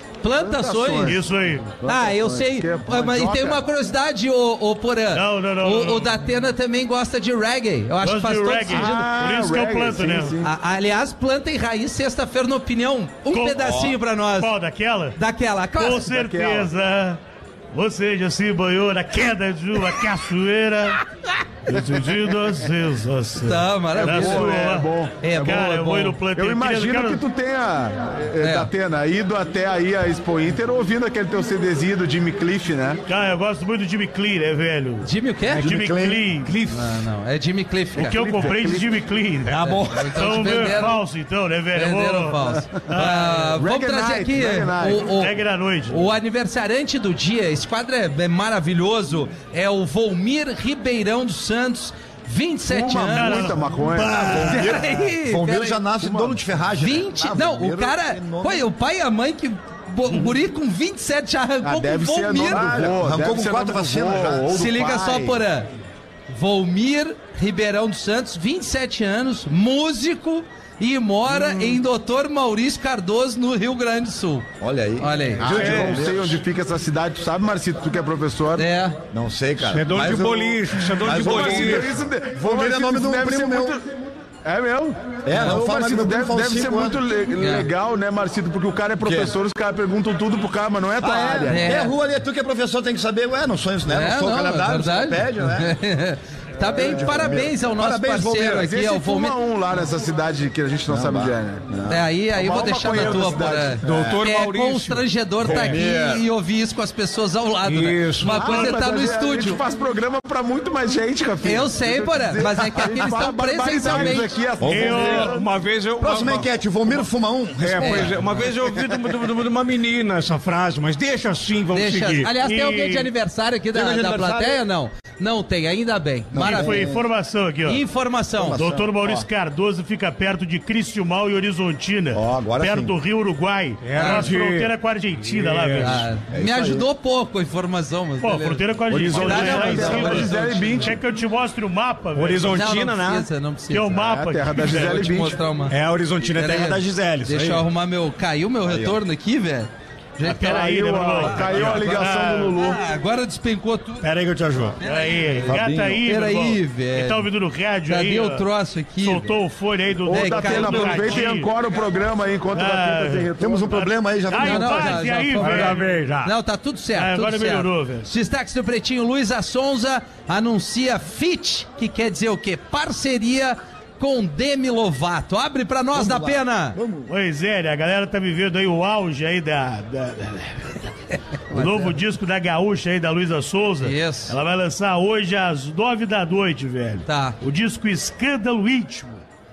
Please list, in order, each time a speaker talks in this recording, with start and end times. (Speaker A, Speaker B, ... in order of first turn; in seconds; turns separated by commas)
Speaker A: 0.2-1.2, Speaker B: 0.4-3.6, Speaker C: 1.0-1.7, Speaker A: 1.9-8.9, Speaker C: 5.1-6.1, Speaker C: 8.0-10.4, Speaker B: 8.7-10.5, Speaker A: 10.4-14.5, Speaker C: 13.3-15.2, Speaker A: 15.2-16.1, Speaker C: 15.8-17.2, Speaker B: 16.1-16.7, Speaker C: 17.7-21.0, Speaker C: 21.7-27.2, Speaker A: 23.4-24.5, Speaker B: 24.0-25.1, Speaker A: 25.2-26.2, Speaker B: 26.4-33.0, Speaker A: 28.4-28.7, Speaker C: 33.1-35.1, Speaker A: 35.0-35.7, Speaker D: 35.5-37.0, Speaker C: 35.6-36.5, Speaker E: 35.6-36.2, Speaker A: 36.7-38.2, Speaker C: 38.0-39.5, Speaker B: 38.0-38.9, Speaker D: 39.4-40.5, Speaker A: 39.6-41.0, Speaker C: 40.1-43.4, Speaker A: 41.7-45.3, Speaker B: 43.5-45.0, Speaker C: 45.0-46.1, Speaker A: 45.9-53.5, Speaker B: 52.7-54.7, Speaker C: 53.1-53.7, Speaker D: 53.9-54.7, Speaker E: 54.4-58.7, Speaker A: 54.4-55.8, Speaker B: 55.9-56.4, Speaker A: 56.8-62.7, Speaker B: 61.6-65.4, Speaker E: 62.4-64.6, Speaker A: 64.5-65.7, Speaker A: 66.3-74.5, Speaker E: 74.6-76.4, Speaker A: 75.0-75.5, Speaker B: 75.4-78.6, Speaker D: 75.4-76.0, Speaker A: 78.6-79.0, Speaker E: 79.1-83.8, Speaker D: 79.7-82.0, Speaker B: 81.0-83.8, Speaker B: 84.4-91.6, Speaker E: 85.2-87.0, Speaker A: 87.4-87.7, Speaker E: 89.0-89.3, Speaker E: 91.0-95.7, Speaker A: 91.5-91.9, Speaker A: 93.9-99.4, Speaker E: 96.7-98.7, Speaker B: 96.8-97.4, Speaker B: 98.5-101.7, Speaker E: 100.9-102.0, Speaker A: 101.9-109.6, Speaker B: 102.3-103.8, Speaker D: 102.9-103.3, Speaker D: 103.8-105.8, Speaker E: 103.8-104.2, Speaker E: 105.4-106.2, Speaker D: 107.6-108.6, Speaker B: 108.3-115.5, Speaker A: 111.4-114.3, Speaker E: 113.9-115.2, Speaker D: 114.6-116.5, Speaker C: 114.7-115.3, Speaker E: 116.0-118.5, Speaker D: 117.6-122.3, Speaker A: 117.8-118.4, Speaker A: 121.7-126.8, Speaker C: 122.4-123.1, Speaker E: 123.7-124.6, Speaker E: 126.3-127.0, Speaker C: 126.4-127.8, Speaker A: 127.7-128.6, Speaker E: 128.4-129.2, Speaker C: 128.5-136.0, Speaker E: 132.1-132.9, Speaker D: 133.8-136.1, Speaker A: 133.9-134.3, Speaker A: 135.8-140.4, Speaker E: 136.3-136.9, Speaker C: 138.2-142.6, Speaker B: 138.9-141.0, Speaker D: 142.1-143.3, Speaker A: 142.5-144.1, Speaker C: 143.7-145.2, Speaker B: 144.0-145.4, Speaker A: 144.6-145.7, Speaker D: 145.7-147.7, Speaker A: 146.3-154.1, Speaker E: 148.6-149.0, Speaker C: 150.2-152.6, Speaker B: 150.4-152.8, Speaker D: 154.0-154.8, Speaker C: 154.8-158.5, Speaker A: 154.8-155.1, Speaker E: 155.4-156.0, Speaker A: 156.1-157.3, Speaker A: 157.9-159.3, Speaker C: 159.0-161.5, Speaker B: 160.1-163.8, Speaker A: 160.1-161.4, Speaker C: 162.5-163.3, Speaker E: 163.4-165.0, Speaker C: 164.3-165.9, Speaker A: 164.4-176.8, Speaker D: 165.3-166.3, Speaker C: 166.9-168.1, Speaker E: 175.9-177.1, Speaker C: 177.1-180.9, Speaker C: 181.5-189.2, Speaker A: 183.8-184.3, Speaker A: 187.1-187.3